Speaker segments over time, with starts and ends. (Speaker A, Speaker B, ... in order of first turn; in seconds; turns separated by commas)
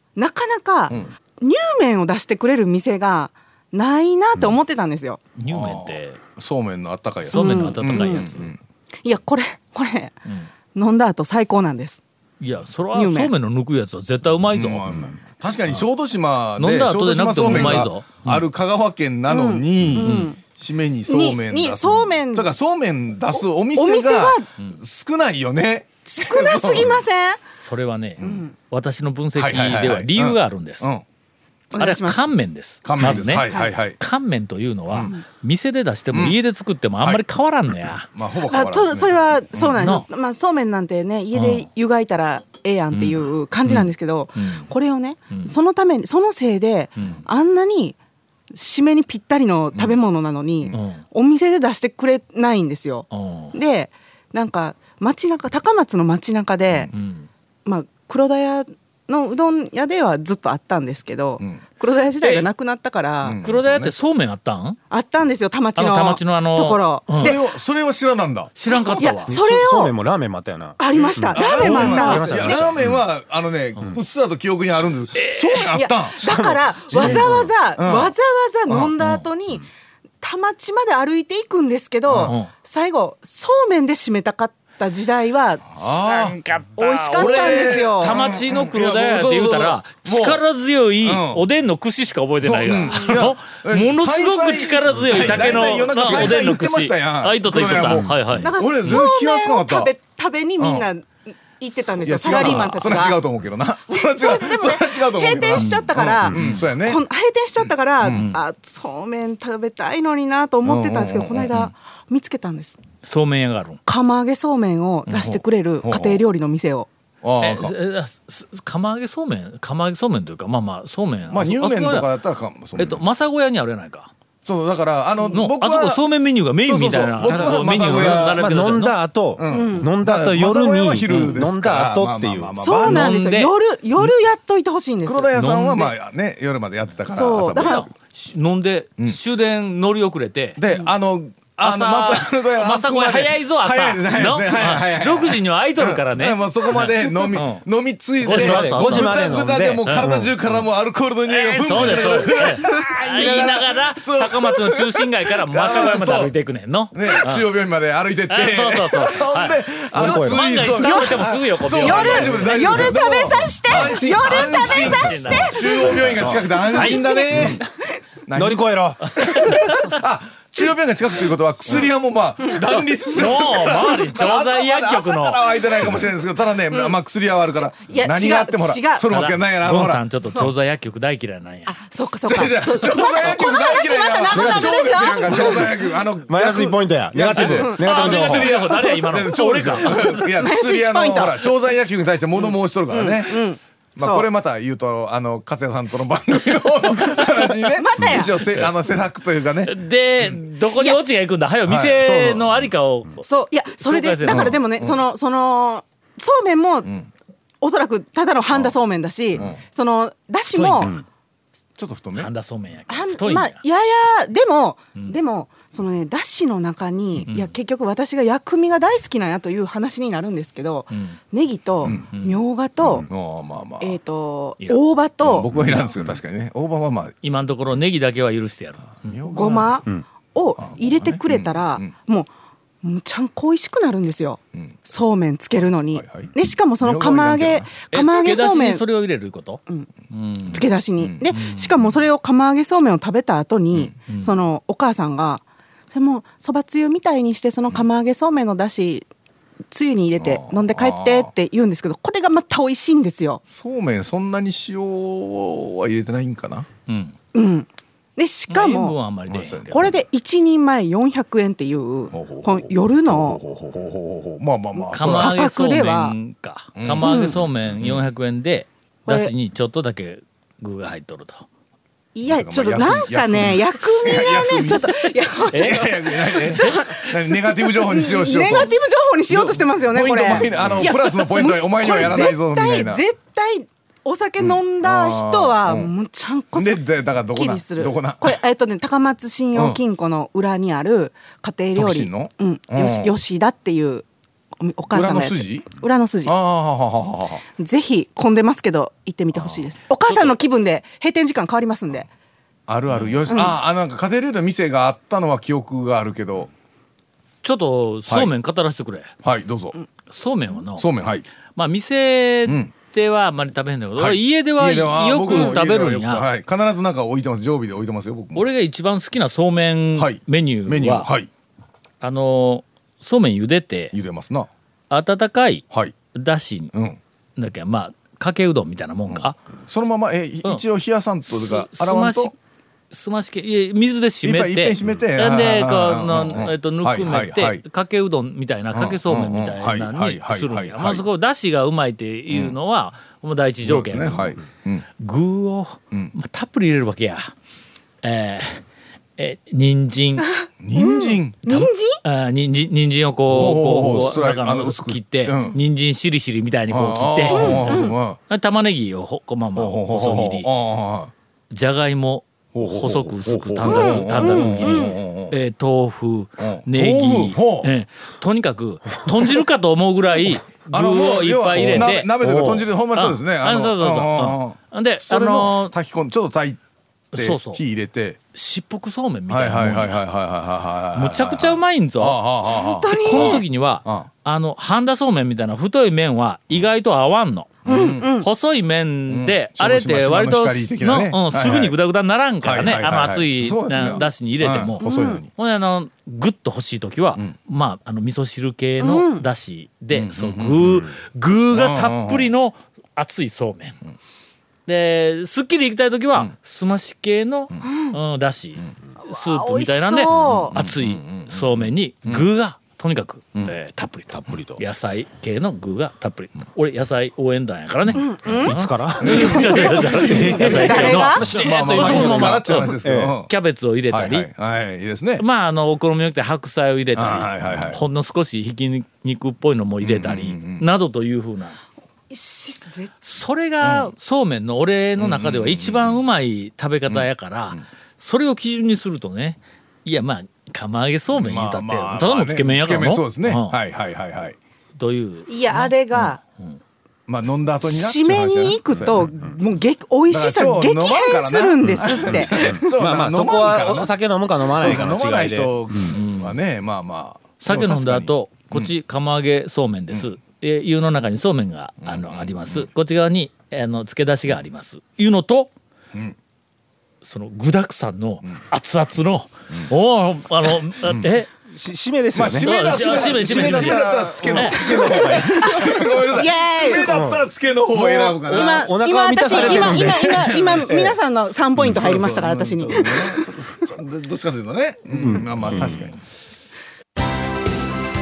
Speaker A: 0.2-5.2, Speaker B: 5.4-6.2, Speaker C: 5.5-8.6, Speaker B: 7.3-8.5, Speaker A: 7.3-8.3, Speaker A: 9.0-10.2, Speaker A: 10.8-12.0, Speaker B: 12.4-14.9, Speaker A: 12.9-13.3, Speaker C: 14.5-27.0, Speaker B: 16.6-18.4, Speaker A: 17.5-17.7, Speaker A: 19.3-20.4, Speaker B: 20.0-20.3, Speaker A: 21.1-22.5, Speaker A: 23.3-24.5, Speaker A: 26.1-27.4, Speaker B: 27.6-30.9, Speaker A: 28.2-28.5, Speaker C: 29.4-31.0, Speaker A: 31.7-32.3, Speaker B: 31.8-38.1, Speaker C: 32.8-34.0, Speaker A: 33.0-33.7, Speaker C: 34.9-35.1, Speaker C: 36.1-36.4, Speaker C: 38.1-39.9, Speaker A: 38.5-48.0, Speaker B: 39.8-40.1, Speaker B: 41.3-41.7, Speaker B: 42.9-44.7, Speaker B: 47.0-47.2, Speaker A: 48.5-56.9, Speaker B: 50.7-51.0, Speaker B: 53.1-53.6, Speaker B: 56.9-57.3, Speaker A: 57.6-63.4, Speaker B: 62.2-62.5, Speaker C: 63.2-63.9, Speaker B: 63.4-64.8, Speaker A: 64.9-67.4, Speaker B: 65.8-67.4, Speaker C: 67.2-68.5, Speaker B: 68.6-69.3, Speaker A: 69.0-69.9, Speaker D: 69.3-73.0, Speaker A: 70.8-72.7, Speaker C: 71.0-78.1, Speaker B: 71.7-72.1, Speaker B: 75.2-75.7, Speaker A: 75.7-79.7, Speaker D: 76.2-77.5, Speaker B: 79.0-79.3, Speaker A: 80.2-85.8, Speaker C: 82.1-82.3, Speaker B: 82.2-82.5, Speaker C: 85.8-86.4, Speaker B: 85.8-99.0, Speaker A: 86.8-88.2, Speaker C: 87.1-90.4, Speaker C: 91.0-91.4, Speaker C: 92.4-99.9, Speaker D: 97.8-98.3, Speaker A: 98.4-103.2, Speaker C: 100.6-100.9, Speaker C: 101.8-107.0, Speaker B: 102.3-102.8, Speaker A: 103.9-112.8, Speaker B: 105.5-106.6, Speaker C: 108.0-108.3, Speaker B: 108.0-108.4, Speaker C: 110.6-111.6, Speaker B: 113.0-113.8, Speaker A: 113.9-116.9, Speaker C: 115.1-116.2, Speaker C: 117.2-117.7, Speaker B: 117.4-122.1, Speaker C: 121.3-123.0, Speaker B: 122.8-124.1, Speaker C: 124.4-126.0, Speaker B: 125.3-129.0, Speaker C: 126.6-128.4, Speaker D: 127.2-132.6, Speaker C: 129.4-133.2, Speaker A: 129.5-129.9, Speaker B: 131.1-131.3, Speaker A: 132.6-135.3, Speaker B: 132.8-134.1, Speaker C: 135.1-137.8, Speaker B: 135.3-135.9, Speaker A: 137.1-137.9, Speaker B: 137.6-140.6, Speaker C: 140.6-156.3, Speaker B: 141.6-147.6, Speaker B: 148.2-150.1, Speaker D: 148.2-150.4, Speaker B: 151.3-157.5, Speaker C: 156.9-167.6, Speaker B: 158.3-163.0, Speaker D: 159.9-160.4, Speaker A: 160.6-167.7, Speaker B: 164.2-165.8, Speaker D: 166.0-167.6, Speaker C: 168.3-168.7, Speaker D: 168.3-169.8, Speaker B: 169.1-170.0, Speaker C: 169.3-180.5, Speaker B: 173.1-175.6, Speaker A: 177.8-179.1, Speaker B: 179.1-181.8, Speaker A: 181.7-185.9, Speaker C: 182.3-199.8, Speaker D: 184.3-188.5, Speaker A: 187.3-188.5, Speaker B: 187.8-190.1, Speaker A: 189.7-191.5, Speaker A: 192.4-194.3, Speaker A: 197.8-198.4, Speaker B: 199.7-204.6, Speaker C: 201.7-202.7, Speaker A: 203.3-206.9, Speaker C: 204.2-205.0, Speaker A: 207.6-211.0, Speaker C: 209.3-209.6, Speaker B: 210.5-211.0, Speaker C: 211.8-212.3, Speaker B: 212.2-213.6, Speaker A: 212.9-223.1, Speaker B: 220.9-221.2, Speaker C: 221.8-222.1, Speaker B: 221.9-222.4, Speaker C: 222.8-224.0, Speaker A: 223.8-225.5, Speaker C: 225.2-227.2, Speaker B: 225.5-225.9, Speaker B: 227.2-229.7, Speaker C: 229.1-229.8, Speaker A: 229.3-232.3, Speaker C: 230.6-231.9, Speaker A: 232.8-238.8, Speaker C: 235.9-237.7, Speaker B: 237.9-240.7, Speaker A: 240.5-249.1, Speaker C: 241.0-241.4, Speaker B: 241.3-241.7, Speaker B: 244.1-244.3, Speaker A: 249.7-253.4, Speaker C: 250.2-251.3, Speaker C: 253.5-256.7, Speaker B: 256.9-257.1, Speaker A: 257.3-259.0, Speaker B: 258.5-259.9, Speaker C: 259.3-260.0, Speaker A: 259.7-263.4, Speaker C: 262.1-265.4, Speaker B: 264.9-271.5, Speaker A: 264.9-266.2, Speaker C: 266.8-268.0, Speaker A: 267.0-267.4, Speaker A: 269.1-269.3, Speaker A: 272.1-294.1, Speaker C: 272.3-278.8, Speaker B: 275.5-275.8, Speaker C: 279.3-283.0, Speaker B: 280.6-280.8, Speaker C: 284.4-285.9, Speaker C: 286.6-288.4, Speaker C: 289.5-289.8, Speaker C: 291.8-293.1, Speaker A: 294.6-296.3, Speaker C: 294.9-295.7, Speaker C: 296.2-297.4, Speaker A: 297.6-302.1, Speaker C: 299.4-299.6, Speaker B: 300.1-300.3, Speaker C: 302.7-306.5, Speaker B: 302.9-303.3, Speaker A: 303.3-303.6, Speaker B: 307.4-309.1, Speaker C: 309.2-309.8, Speaker B: 310.1-310.9, Speaker C: 310.8-311.3, Speaker B: 311.6-316.2, Speaker C: 312.5-312.7, Speaker C: 314.0-318.5, Speaker A: 315.3-315.6, Speaker B: 318.4-321.1, Speaker C: 320.0-321.3, Speaker B: 322.0-323.9, Speaker C: 323.9-324.5, Speaker B: 324.9-326.7, Speaker C: 326.7-327.0, Speaker B: 327.4-329.4, Speaker C: 329.1-332.3, Speaker B: 331.3-332.4, Speaker B: 332.9-344.3, Speaker C: 334.2-337.6, Speaker C: 338.7-341.0, Speaker C: 342.3-342.6, Speaker C: 343.6-344.9, Speaker B: 345.0-347.3, Speaker B: 348.0-348.6, Speaker B: 349.2-350.3, Speaker A: 350.4-352.0, Speaker C: 350.6-351.7, Speaker B: 352.0-360.5, Speaker C: 353.3-355.6, Speaker C: 356.7-358.2, Speaker A: 357.3-358.0, Speaker C: 359.6-361.1, Speaker B: 361.5-375.8, Speaker C: 362.5-365.4, Speaker A: 363.6-365.0, Speaker C: 366.4-367.7, Speaker C: 370.7-376.6, Speaker B: 377.1-377.6, Speaker C: 377.1-378.2, Speaker B: 378.3-380.0, Speaker C: 379.3-384.1, Speaker B: 380.9-382.2, Speaker A: 382.5-383.4, Speaker B: 382.9-403.8, Speaker C: 387.6-388.1, Speaker A: 387.7-388.3, Speaker C: 389.1-391.8, Speaker C: 392.4-395.3, Speaker A: 394.8-395.2, Speaker A: 398.8-399.3, Speaker C: 399.9-400.9, Speaker C: 401.5-402.3, Speaker B: 404.7-424.3, Speaker A: 407.6-408.0, Speaker A: 409.1-410.6, Speaker C: 410.1-412.3, Speaker D: 414.2-414.6, Speaker A: 417.9-418.6, Speaker D: 418.4-419.8, Speaker C: 419.0-423.3, Speaker A: 419.4-421.2, Speaker D: 420.4-423.1, Speaker C: 423.9-425.2, Speaker B: 425.2-431.6, Speaker C: 427.0-427.8, Speaker C: 429.8-430.6, Speaker A: 432.1-432.9, Speaker B: 433.0-443.6, Speaker C: 433.6-433.9, Speaker C: 435.0-436.0, Speaker C: 436.9-437.6, Speaker C: 441.1-444.4, Speaker B: 444.8-446.6, Speaker A: 445.3-446.2, Speaker C: 447.1-449.1, Speaker A: 447.6-452.7, Speaker C: 450.1-453.9, Speaker D: 451.6-455.9, Speaker C: 454.5-458.7, Speaker B: 455.9-456.4, Speaker B: 457.4-465.5, Speaker C: 461.8-462.7, Speaker B: 467.0-471.3, Speaker C: 470.8-471.1, Speaker D: 471.5-475.8, Speaker C: 472.1-478.7, Speaker B: 472.4-474.6, Speaker A: 474.6-477.1, Speaker D: 476.8-481.0, Speaker A: 477.9-483.2, Speaker C: 479.2-480.8, Speaker C: 481.6-486.0, Speaker D: 484.9-485.8, Speaker B: 485.3-485.9